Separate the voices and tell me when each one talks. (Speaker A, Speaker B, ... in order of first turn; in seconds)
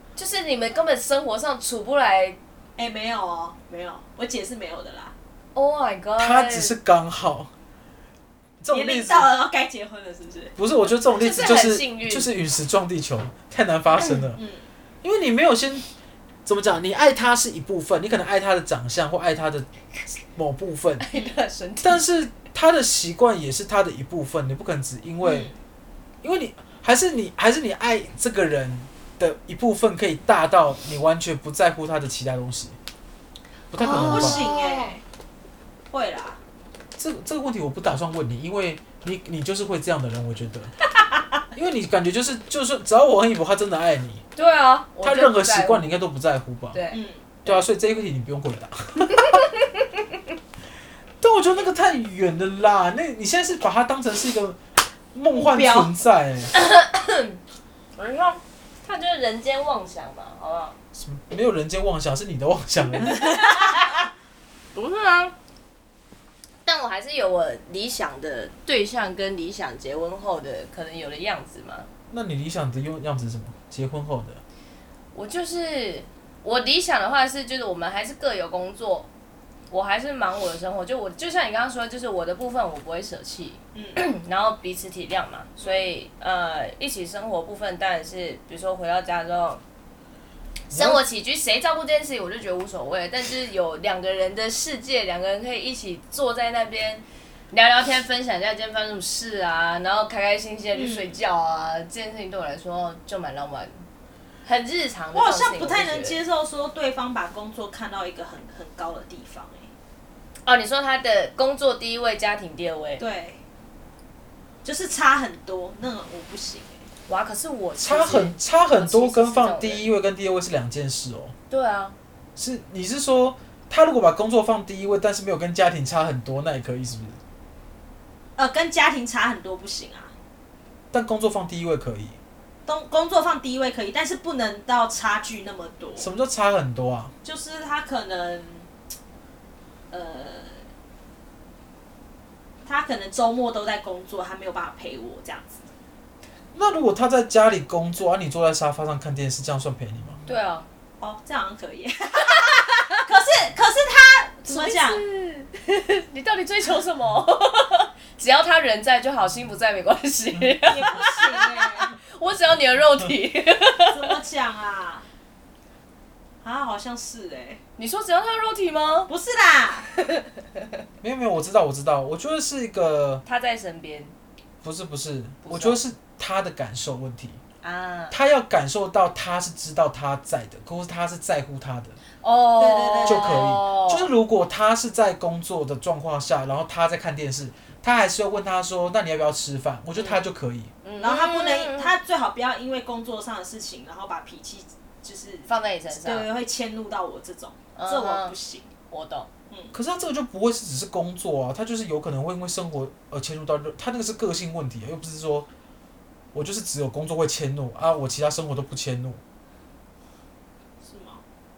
Speaker A: 0.2-2.4, 5.5-6.7, 11.1-12.3, 14.0-14.2, 21.0-22.0, 33.8-35.0, 44.4-46.0, 46.7-47.6, 49.2-49.6, 56.5-57.4, 58.0-60.8, 63.1-63.9, 64.7-65.3, 66.7-71.9, 75.1-79.1, 79.7-89.6, 90.7-103.8, 104.4-106.2, 110.4-113.0, 117.1-119.8, 121.5-122.0, 150.3-150.7, 154.4-164.1, 167.8-169.1, 169.9-170.6, 173.2-174.1, 175.4-175.8, 177.6-178.2, 182.2-184.1, 189.9-190.2, 190.8-191.9, 195.5-196.3, 197.8-198.3, 198.9-199.3
Speaker B: 2.8-5.1, 8.7-10.6, 14.3-14.7, 25.2-25.6, 33.8-35.0, 35.9-36.4, 46.9-47.4, 55.3-56.0, 83.7-84.0, 85.6-85.9, 100.7-101.2, 105.1-109.7, 113.0-113.4, 114.6-116.9, 128.4-130.1, 132.7-136.1, 137.2-138.7, 139.9-140.7, 142.7-145.6, 151.0-155.0, 160.7-161.9, 163.9-165.1, 166.4-167.6, 169.1-169.9, 182.6-183.5, 191.0-198.7, 199.5-199.8, 210.8-211.2
Speaker C: 6.2-7.5, 8.6-9.3, 10.6-14.4, 15.0-15.9, 16.4-19.7, 20.3-21.1, 21.8-25.5, 26.2-32.8, 33.7-34.5, 37.0-40.7, 41.5-44.2, 45.0-46.8, 47.5-49.3, 51.2-54.6, 55.1-56.5, 60.9-63.2, 72.1-74.4, 90.7-91.0, 117.8-121.3, 122.4-127.2, 130.9-132.2, 136.0-137.1, 146.5-150.2, 171.0-173.2, 174.6-177.4, 178.1-182.0, 183.1-190.7, 199.7-205.5, 206.3-209.2